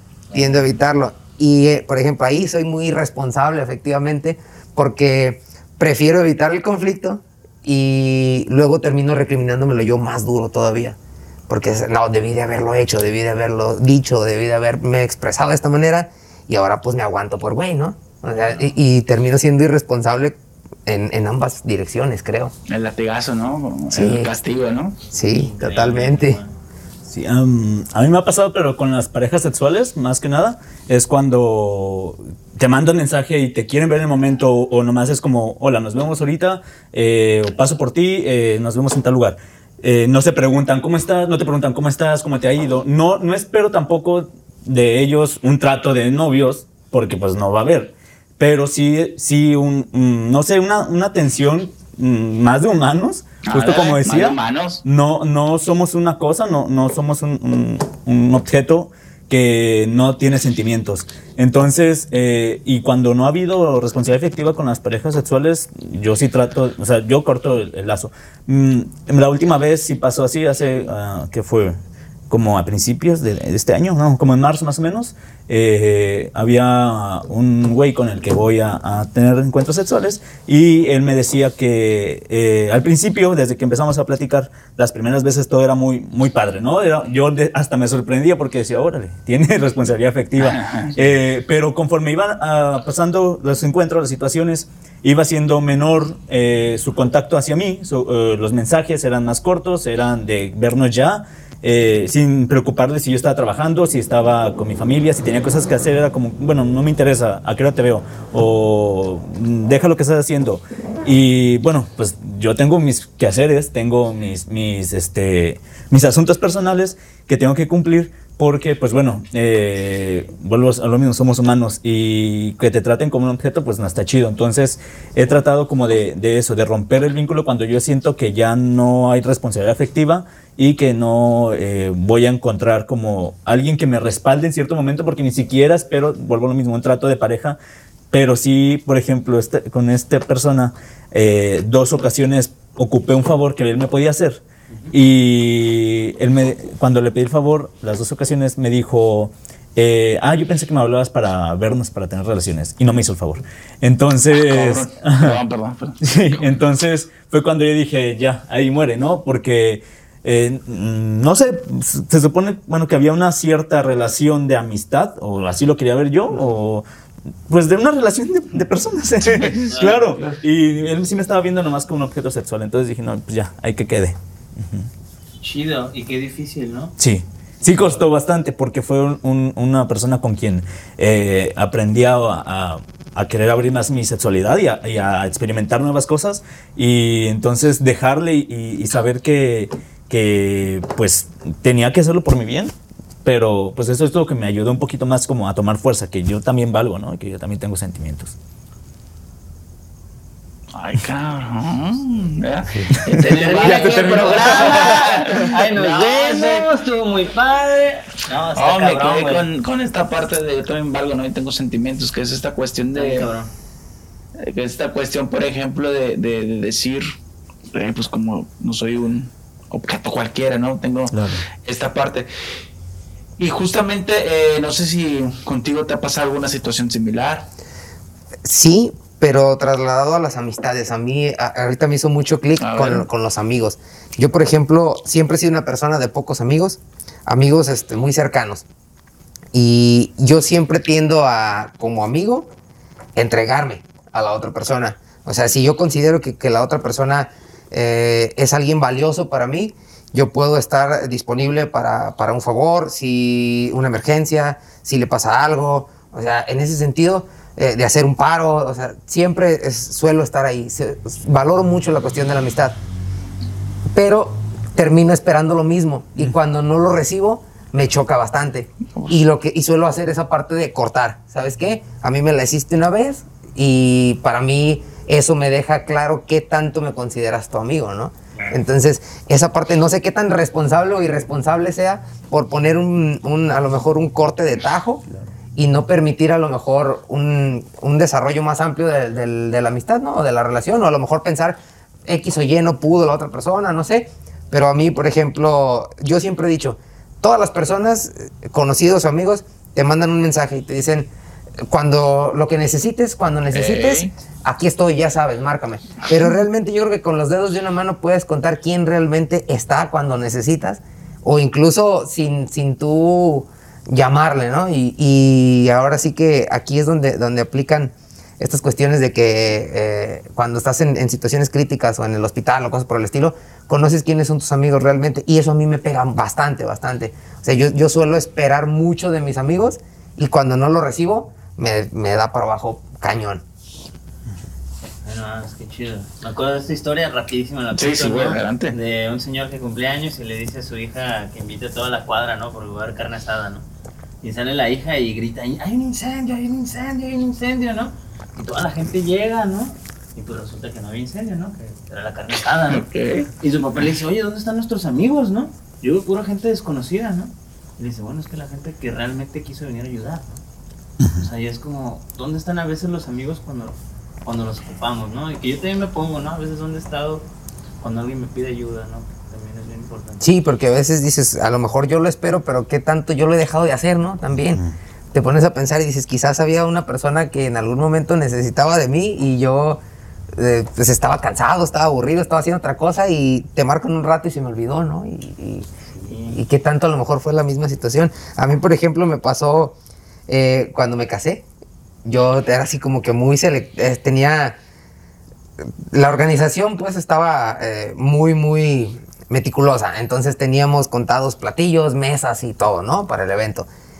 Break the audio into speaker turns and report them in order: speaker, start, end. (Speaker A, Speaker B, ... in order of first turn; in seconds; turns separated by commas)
Speaker A: 0.3-11.0, Speaker A: 11.5-22.5, Speaker B: 22.7-25.0, Speaker A: 23.9-24.3, Speaker A: 25.1-26.4, Speaker C: 25.4-26.5, Speaker D: 27.1-71.8, Speaker B: 53.4-54.8, Speaker D: 72.3-137.6, Speaker B: 90.4-90.9, Speaker D: 138.1-155.4, Speaker C: 144.7-144.9, Speaker B: 154.3-156.4, Speaker D: 156.0-166.8, Speaker D: 167.5-174.9, Speaker B: 169.3-169.6, Speaker C: 169.7-170.2, Speaker C: 175.4-176.9, Speaker D: 177.0-192.7, Speaker D: 193.2-198.3, Speaker B: 200.7-206.7, Speaker C: 203.2-209.4, Speaker D: 203.6-205.4, Speaker B: 208.5-213.3, Speaker C: 212.9-213.5, Speaker B: 214.4-217.1, Speaker B: 217.7-222.3, Speaker D: 221.1-221.5, Speaker B: 223.4-227.5, Speaker A: 228.4-238.6, Speaker B: 232.6-233.0, Speaker A: 239.5-242.5, Speaker A: 243.2-262.8, Speaker A: 263.9-285.0, Speaker A: 285.6-301.1, Speaker A: 301.6-333.4, Speaker B: 303.5-304.1, Speaker C: 335.0-343.6, Speaker B: 337.7-338.8, Speaker C: 344.2-352.8, Speaker B: 352.7-353.3, Speaker C: 353.4-360.4, Speaker C: 361.2-367.2, Speaker C: 367.8-370.2, Speaker A: 370.2-374.6, Speaker A: 375.1-379.8, Speaker A: 380.3-385.7, Speaker C: 386.0-386.4, Speaker A: 386.3-389.8, Speaker A: 390.3-391.4, Speaker A: 392.1-394.6, Speaker A: 395.6-403.7